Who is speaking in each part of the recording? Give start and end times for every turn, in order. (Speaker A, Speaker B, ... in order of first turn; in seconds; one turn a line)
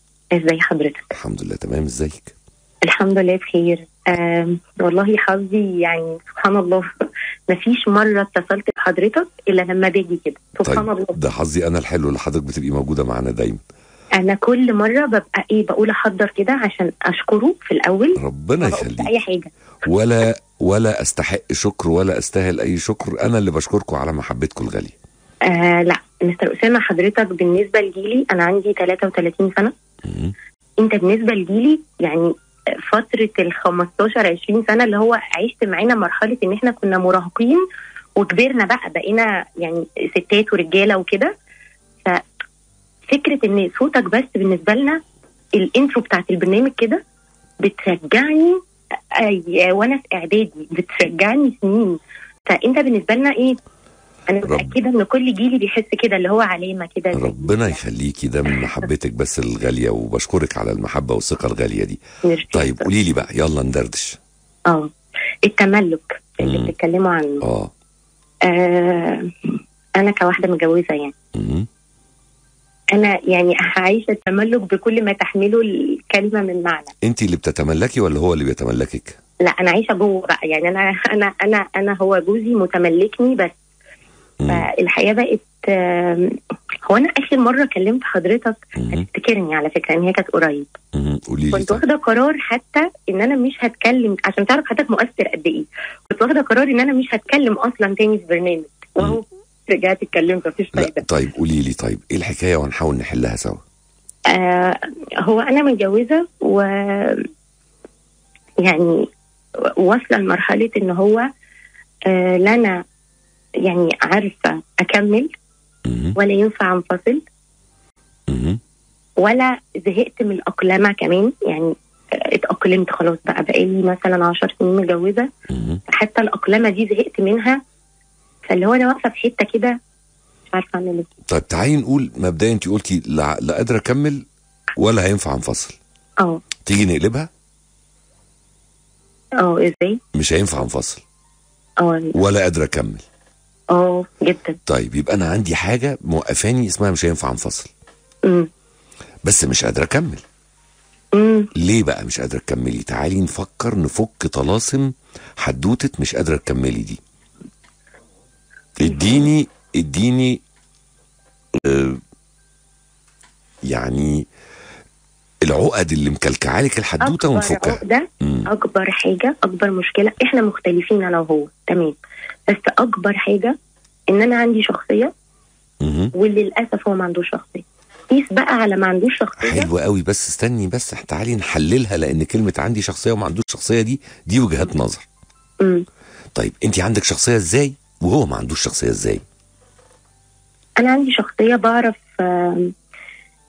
Speaker A: 0.4-1.1
Speaker B: 1.1-2.3
Speaker A: 2.9-6.8
Speaker A: 7.5-11.2
Speaker B: 10.7-13.6
Speaker A: 14.2-19.5
Speaker B: 18.2-19.1
Speaker B: 19.9-25.0
Speaker A: 25.5-29.7
Speaker B: 30.1-30.3
Speaker A: 30.8-32.3
Speaker A: 32.9-37.6
Speaker A: 38.2-41.3
Speaker A: 43.1-45.0
Speaker A: 45.6-47.0
Speaker A: 47.6-48.6
Speaker A: 49.2-52.0
Speaker A: 52.5-53.6
Speaker A: 54.3-57.8
Speaker B: 57.1-62.0
Speaker A: 62.2-62.9
Speaker B: 62.5-64.2
Speaker A: 65.5-67.4
Speaker B: 66.4-66.7
Speaker B: 67.4-67.7
Speaker A: 68.5-71.1
Speaker B: 71.4-71.7
Speaker A: 73.0-76.9
Speaker B: 77.0-79.2
Speaker A: 79.5-83.5
Speaker B: 84.4-84.7
Speaker A: 84.5-86.4
Speaker A: 86.9-90.7
Speaker B: 88.8-89.1
Speaker B: 91.0-91.8
Speaker A: 91.5-101.0
Speaker B: 100.8-103.6
Speaker A: 104.3-107.2
Speaker A: 108.6-109.1
Speaker A: 109.8-111.2
Speaker A: 112.1-112.8
Speaker A: 113.7-115.3
Speaker B: 115.9-116.2
Speaker A: 116.2-117.2
Speaker B: 118.3-118.6
Speaker A: 119.2-121.7
Speaker A: 122.3-125.3
Speaker B: 125.5-125.8
Speaker A: 125.9-127.6
Speaker A: 128.5-129.8
Speaker A: 130.5-131.1
Speaker B: 131.3-134.2
Speaker B: 134.8-135.8
Speaker B: 136.7-137.3
Speaker A: 139.4-140.0
Speaker B: 140.2-141.0
Speaker A: 141.8-142.1
Speaker B: 142.2-143.0
Speaker A: 143.7-144.6
Speaker B: 144.7-147.7
Speaker B: 149.3-150.2
Speaker A: 151.2-151.5
Speaker B: 151.6-154.9
Speaker B: 155.4-157.0
Speaker B: 158.8-160.4
Speaker A: 158.9-159.3
Speaker B: 161.6-162.0
Speaker B: 163.7-164.2
Speaker B: 165.5-168.5
Speaker A: 167.0-171.9
Speaker A: 172.5-173.5
Speaker A: 174.1-175.1
Speaker B: 175.8-176.1
Speaker A: 176.2-179.7
Speaker B: 179.4-185.1
Speaker B: 186.4-189.2
Speaker A: 190.8-192.7